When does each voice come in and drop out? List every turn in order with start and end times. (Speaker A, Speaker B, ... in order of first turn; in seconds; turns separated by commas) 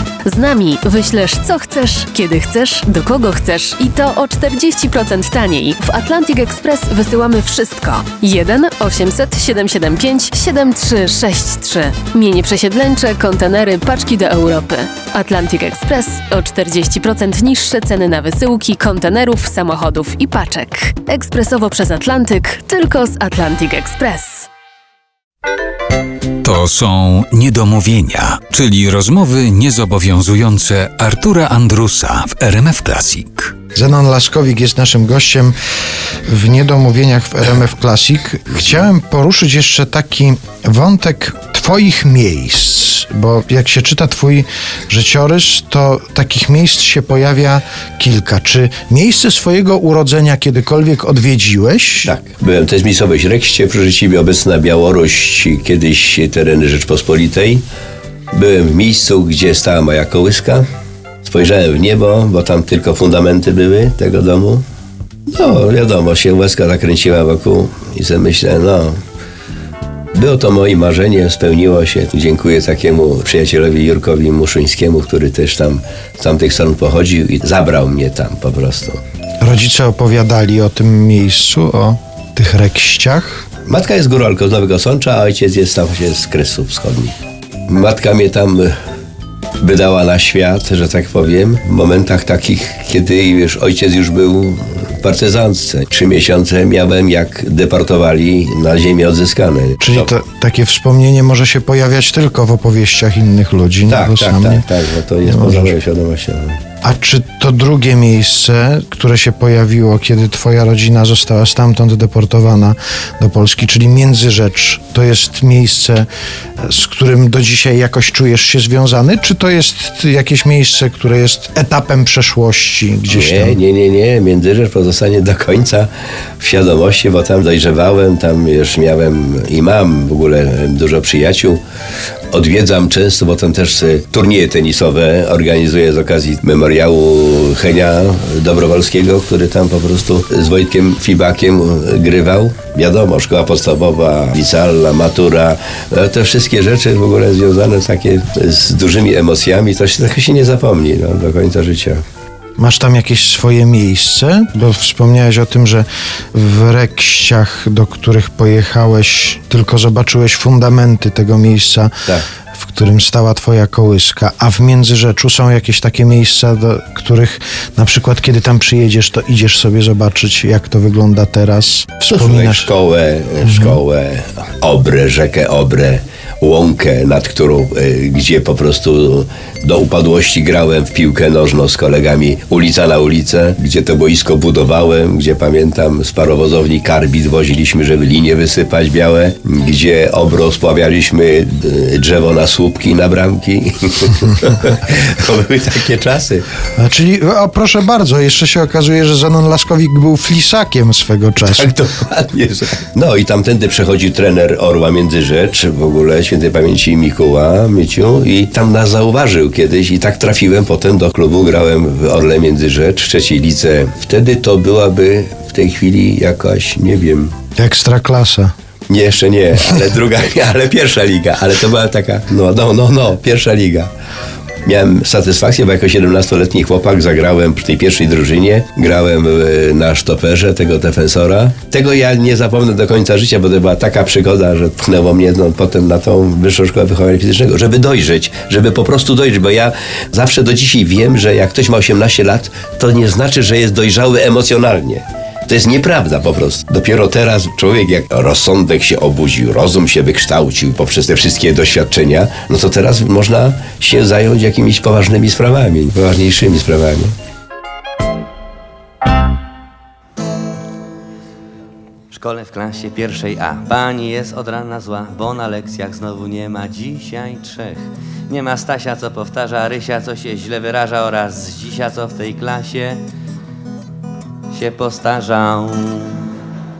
Speaker A: 0.2-24.5, Speaker B: 26.4-33.5, Speaker C: 33.7-35.5, Speaker C: 36.3-52.1, Speaker D: 52.0-57.6, Speaker D: 58.3-60.6, Speaker D: 61.2-64.6, Speaker D: 65.3-69.0, Speaker D: 70.1-79.0, Speaker C: 79.4-83.5, Speaker D: 83.7-87.1, Speaker D: 87.7-88.7, Speaker D: 89.6-100.1, Speaker C: 99.8-104.7, Speaker D: 103.9-106.6, Speaker C: 105.2-105.8, Speaker C: 106.8-116.1, Speaker C: 116.6-123.6, Speaker D: 123.1-125.9, Speaker D: 126.4-131.6, Speaker D: 132.3-152.0, Speaker C: 152.6-172.7, Speaker D: 172.1-196.4, Speaker C: 173.4-173.8, Speaker C: 196.8-201.7, Speaker D: 201.4-217.3, Speaker C: 217.6-218.5, Speaker D: 218.9-223.9, Speaker D: 224.6-257.1, Speaker E: 262.1-273.0, Speaker E: 274.5-276.2